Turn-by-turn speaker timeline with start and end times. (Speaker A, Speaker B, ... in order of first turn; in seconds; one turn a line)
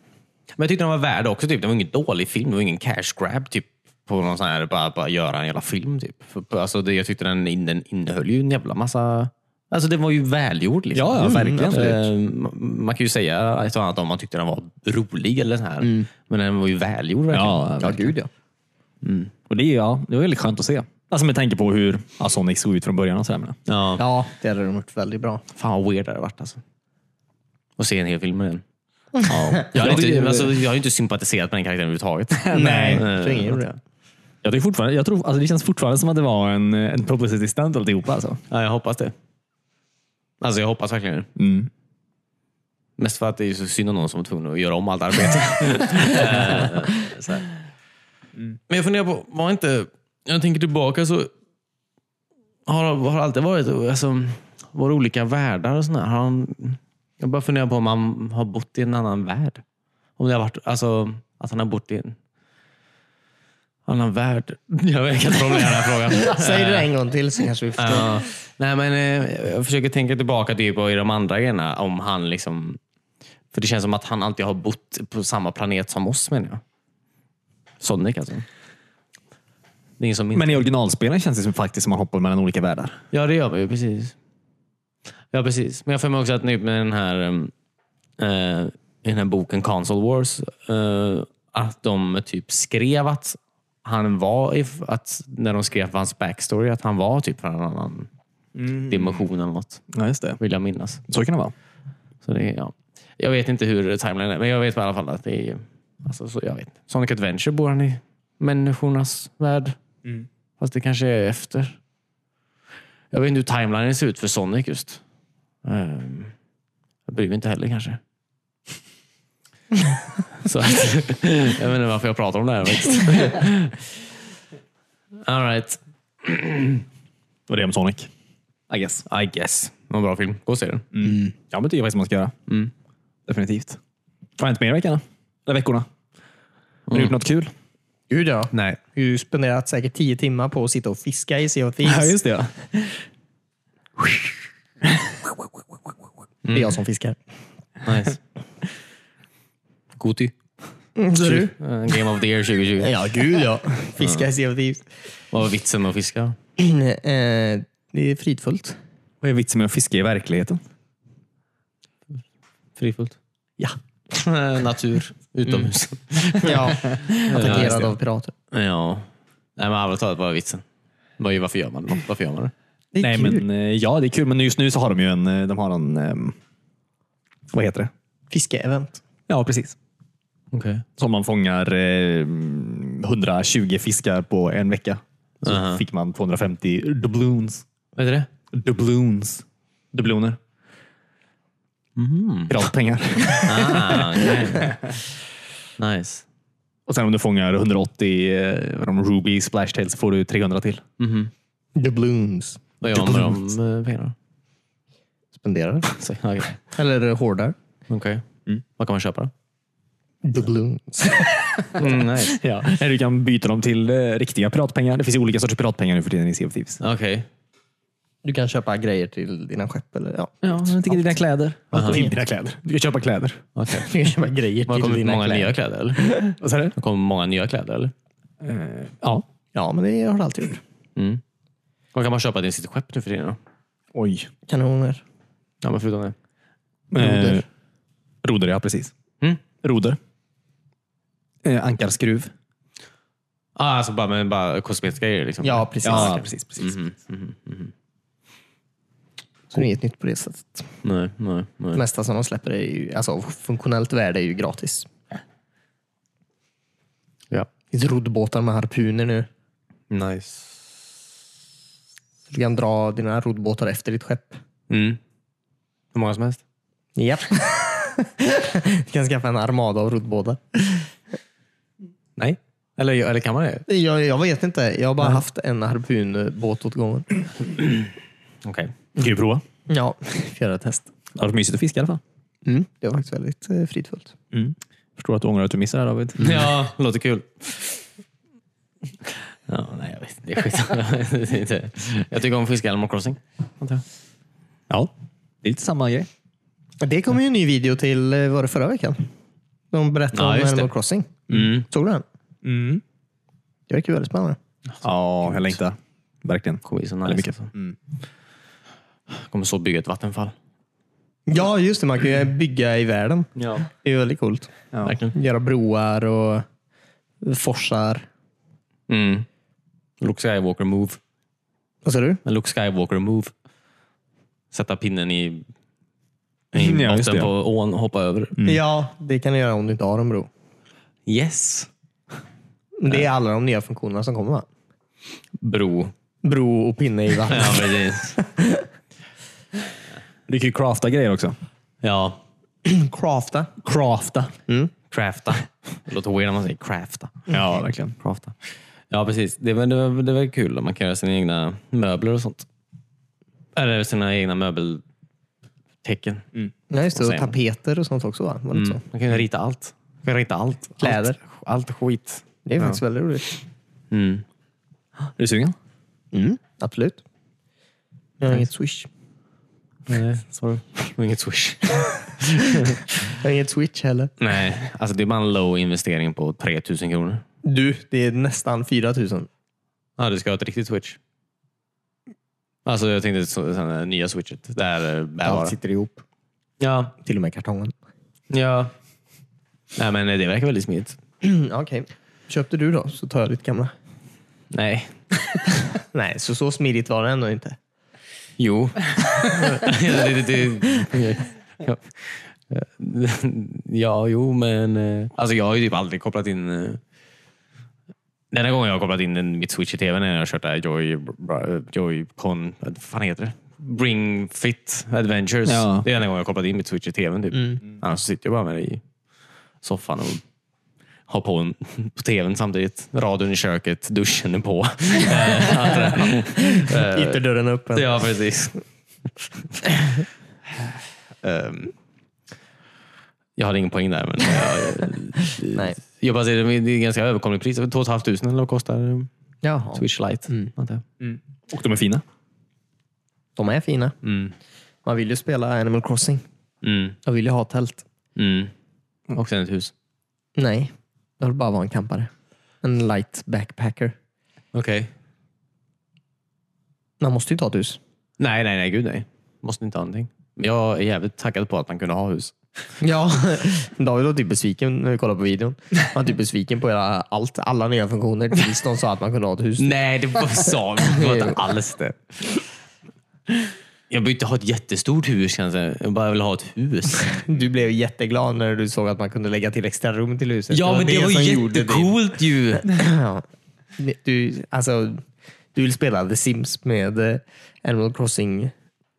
Speaker A: 0.6-18.0
Speaker B: 10.9-12.1
Speaker C: 11.2-11.9
Speaker C: 15.8-16.1
Speaker B: 17.3-18.1
Speaker C: 17.8-18.3
Speaker A: 19.0-19.3
Speaker B: 19.5-23.6
Speaker A: 23.7-24.0
Speaker C: 24.0-25.4
Speaker A: 25.5-26.6
Speaker A: 27.8-28.6
Speaker C: 29.2-29.6
Speaker A: 29.3-33.8
Speaker B: 29.3-30.5
Speaker B: 32.4-33.1
Speaker C: 32.5-33.7
Speaker B: 34.4-38.4
Speaker A: 38.5-39.1
Speaker A: 40.4-41.3
Speaker B: 41.4-41.7
Speaker A: 43.0-47.5
Speaker A: 48.7-51.3
Speaker A: 52.6-59.6
Speaker A: 60.2-62.2
Speaker A: 63.9-66.9
Speaker C: 66.2-68.2
Speaker A: 67.8-72.8
Speaker A: 73.5-76.6
Speaker A: 77.8-78.4
Speaker A: 80.0-80.6
Speaker B: 80.3-83.0
Speaker A: 83.1-84.1
Speaker A: 85.3-87.5
Speaker A: 88.2-98.1
Speaker B: 98.5-99.1
Speaker A: 98.8-99.8
Speaker B: 99.9-100.4
Speaker A: 100.4-101.0
Speaker B: 101.1-101.5
Speaker A: 102.2-109.8
Speaker A: 110.6-111.8
Speaker A: 113.1-115.0
Speaker A: 115.6-116.3
Speaker A: 117.1-118.0
Speaker A: 120.4-123.9
Speaker A: 125.2-126.8
Speaker B: 127.5-128.1
Speaker B: 128.7-129.0
Speaker A: 129.1-130.9
Speaker B: 130.9-132.3
Speaker B: 133.3-133.8
Speaker B: 134.4-135.9
Speaker A: 136.9-137.1
Speaker B: 136.9-137.5
Speaker C: 138.1-142.1
Speaker A: 138.5-138.8
Speaker B: 141.8-142.9
Speaker A: 146.4-146.8
Speaker C: 146.5-147.2
Speaker A: 147.8-148.2
Speaker A: 150.0-150.4
Speaker C: 150.9-151.5
Speaker A: 151.2-152.9
Speaker C: 152.8-154.8
Speaker A: 154.0-154.2
Speaker A: 155.3-156.4
Speaker C: 156.6-158.8
Speaker B: 159.2-160.6
Speaker A: 162.8-163.2
Speaker A: 164.1-167.9
Speaker C: 166.4-168.3
Speaker B: 167.0-167.9
Speaker A: 168.5-170.6
Speaker A: 171.2-172.5
Speaker C: 172.9-173.4
Speaker B: 173.0-176.3
Speaker B: 177.5-177.9
Speaker C: 178.3-179.0
Speaker B: 179.3-179.8
Speaker A: 180.5-180.8
Speaker B: 181.0-187.6
Speaker A: 185.4-185.8
Speaker A: 187.9-188.3
Speaker B: 188.5-190.4
Speaker A: 191.9-192.7
Speaker B: 192.5-194.7
Speaker A: 193.4-194.9
Speaker A: 195.8-196.2
Speaker B: 196.9-200.8
Speaker A: 201.0-201.3
Speaker C: 201.7-202.6
Speaker A: 202.8-204.1
Speaker B: 202.9-203.4
Speaker C: 205.3-205.9
Speaker A: 205.9-206.6
Speaker C: 206.7-207.5
Speaker A: 207.9-208.2
Speaker A: 208.8-209.3
Speaker C: 210.2-211.6
Speaker A: 211.7-212.4
Speaker B: 212.3-216.8
Speaker A: 216.8-217.3
Speaker C: 218.2-221.2
Speaker B: 220.4-223.4
Speaker A: 221.7-222.0
Speaker C: 221.8-222.1
Speaker A: 223.5-223.9
Speaker C: 223.7-226.3
Speaker A: 224.7-226.2
Speaker B: 226.4-226.7
Speaker A: 226.8-227.9
Speaker B: 228.4-229.2
Speaker C: 229.5-230.6
Speaker A: 230.9-231.2
Speaker A: 231.9-233.4
Speaker B: 233.9-234.3
Speaker C: 234.5-235.0
Speaker A: 235.6-236.1
Speaker B: 236.9-237.4
Speaker C: 236.9-237.4
Speaker B: 238.2-238.9
Speaker B: 239.6-240.0
Speaker B: 241.4-242.3
Speaker A: 243.6-247.7
Speaker C: 245.4-246.2
Speaker B: 245.8-246.8
Speaker C: 249.5-250.7
Speaker A: 250.8-251.8
Speaker C: 251.7-254.9
Speaker C: 257.7-259.3
Speaker A: 259.9-260.6
Speaker C: 262.3-264.4
Speaker A: 264.7-265.0
Speaker A: 265.9-266.4
Speaker C: 266.9-270.9
Speaker A: 272.2-273.6
Speaker C: 273.7-277.3
Speaker A: 277.6-277.9
Speaker A: 278.4-278.7
Speaker B: 279.0-279.4
Speaker C: 279.7-280.9
Speaker B: 281.1-282.0
Speaker C: 282.4-284.1
Speaker B: 284.3-286.5
Speaker A: 286.2-287.8
Speaker A: 289.5-293.8
Speaker B: 295.4-296.1
Speaker C: 296.8-299.1
Speaker C: 299.7-302.0
Speaker A: 300.1-300.7
Speaker A: 301.3-301.6
Speaker B: 302.4-302.8
Speaker C: 303.7-304.4
Speaker A: 304.7-305.6
Speaker B: 304.8-307.8
Speaker A: 306.6-307.5
Speaker A: 309.1-310.3
Speaker C: 311.3-314.5
Speaker A: 313.4-313.7
Speaker A: 314.8-315.1
Speaker C: 315.1-316.4
Speaker C: 317.2-318.1
Speaker A: 318.9-319.2
Speaker A: 320.0-321.0
Speaker C: 321.8-322.2
Speaker A: 322.2-323.3
Speaker A: 324.5-325.5
Speaker A: 326.5-328.4
Speaker B: 326.5-327.3
Speaker C: 328.4-330.3
Speaker A: 331.1-331.7
Speaker C: 332.8-334.4
Speaker A: 335.4-335.9
Speaker C: 336.2-338.7
Speaker A: 337.3-338.1
Speaker B: 340.3-341.4
Speaker A: 341.8-342.2
Speaker C: 342.6-343.5
Speaker B: 343.6-344.3
Speaker A: 344.9-347.2
Speaker B: 347.3-347.9
Speaker A: 348.0-348.3
Speaker A: 348.9-352.4
Speaker A: 353.5-354.8
Speaker A: 355.8-356.3
Speaker C: 356.7-358.8
Speaker A: 356.9-357.3
Speaker A: 358.5-362.8
Speaker C: 360.8-361.2
Speaker C: 362.4-363.3
Speaker A: 363.9-364.2
Speaker B: 365.1-365.6
Speaker C: 366.1-367.0
Speaker C: 368.2-368.9
Speaker A: 369.9-372.9
Speaker C: 373.1-374.1
Speaker A: 374.2-377.2
Speaker C: 377.4-379.3
Speaker A: 380.0-381.0
Speaker A: 382.6-385.5
Speaker C: 385.2-386.0
Speaker A: 386.6-386.9
Speaker C: 387.0-387.7
Speaker A: 388.3-388.7
Speaker A: 389.8-391.0
Speaker C: 391.2-393.7
Speaker A: 394.5-395.0
Speaker C: 395.8-397.6
Speaker A: 398.4-406.8
Speaker A: 408.3-418.8
Speaker B: 415.4-415.9
Speaker A: 419.6-420.2
Speaker A: 421.1-427.2
Speaker C: 425.3-428.0
Speaker A: 427.7-428.6
Speaker A: 431.2-431.7
Speaker A: 433.4-439.1
Speaker C: 439.4-440.5
Speaker A: 439.7-440.8
Speaker B: 441.0-442.0
Speaker C: 443.4-443.9
Speaker A: 444.0-444.3
Speaker C: 444.8-446.2
Speaker A: 446.6-447.0
Speaker C: 447.0-447.8
Speaker A: 448.1-448.5
Speaker A: 449.1-449.7
Speaker C: 450.4-452.1
Speaker C: 452.6-453.9
Speaker A: 454.5-454.9
Speaker C: 457.0-457.8
Speaker A: 458.2-462.3
Speaker C: 462.8-469.7
Speaker A: 469.6-472.2
Speaker C: 470.9-471.4
Speaker A: 473.9-477.2
Speaker C: 477.1-482.0
Speaker A: 480.5-482.7
Speaker C: 482.6-483.2
Speaker C: 483.8-485.0
Speaker C: 485.5-488.5